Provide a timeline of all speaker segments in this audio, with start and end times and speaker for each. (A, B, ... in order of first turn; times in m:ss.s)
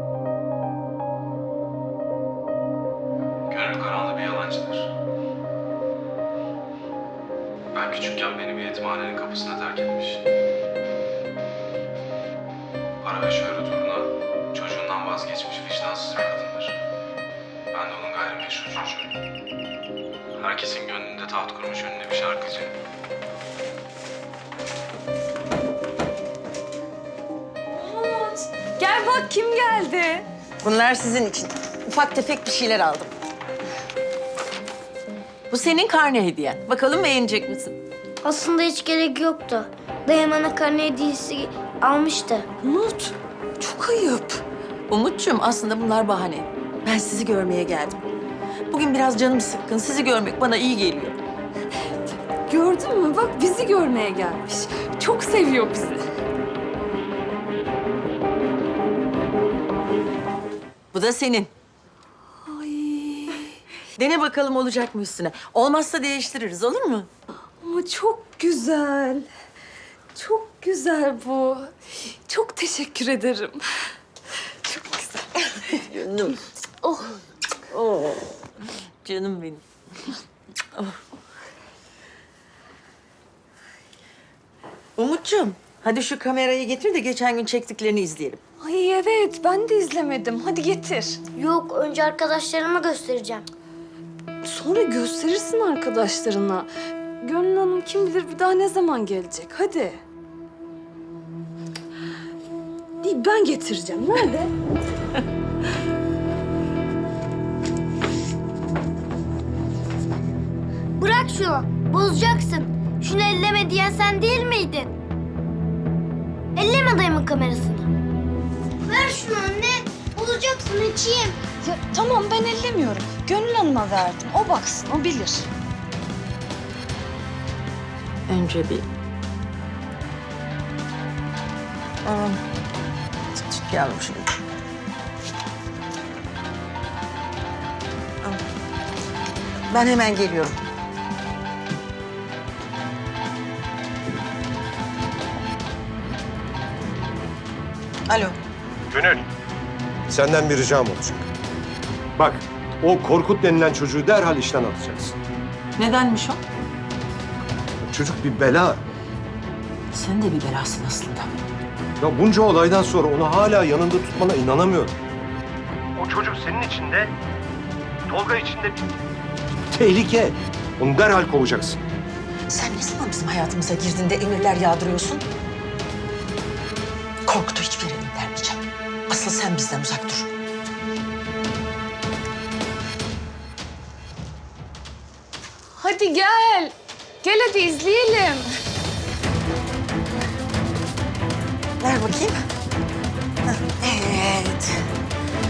0:03.5-0:04.9 A
0:07.7-0:10.2 A
0:13.0-0:16.8 A
0:17.7-0:19.2 A
0:20.4-0:22.7 A
0:27.7-0:30.2 B
0:30.6-0:33.1 C
0:35.5-0:37.8 C
0:38.2-0:42.5 D
0:42.6-0:44.4 B
0:44.9-0:48.0 C
0:48.7-0:51.2 C
0:52.5-0:56.0 B
1:00.9-1:01.5 C
1:02.4-1:03.5 B
1:04.0-1:07.1 C
1:07.6-1:09.3 B
1:10.1-1:11.7 B
1:12.3-1:13.6 B
1:14.6-1:15.3 B
1:15.5-1:16.4 C
1:17.7-1:18.4 C
1:19.0-1:19.6 C
1:25.0-1:28.4 C
1:28.6-1:31.2 B
1:31.3-1:33.4 D
1:34.4-1:36.7 B
1:37.2-1:40.0 B
1:43.0-1:44.5 B
1:51.0-1:54.9 D
1:56.5-1:57.9 D
1:58.8-2:01.4 D
2:01.7-2:05.2 B
2:08.3-2:08.8 C
2:12.0-2:12.4 C
2:13.4-2:14.4 C
2:19.7-2:20.6 C
2:28.1-2:28.4 C
2:28.9-2:29.2 E
2:30.1-2:31.3 E
2:32.2-2:35.1 E
2:35.8-2:36.4 C
2:37.8-2:38.8 E
2:39.9-2:41.3 C
2:42.0-2:44.9 E
2:46.0-2:47.1 E
2:48.1-2:48.9 E
2:49.7-2:51.8 E
2:52.5-2:55.2 C
2:57.2-3:00.3 C
3:05.8-3:08.5 B
3:11.8-3:12.4 C
3:13.5-3:14.8 C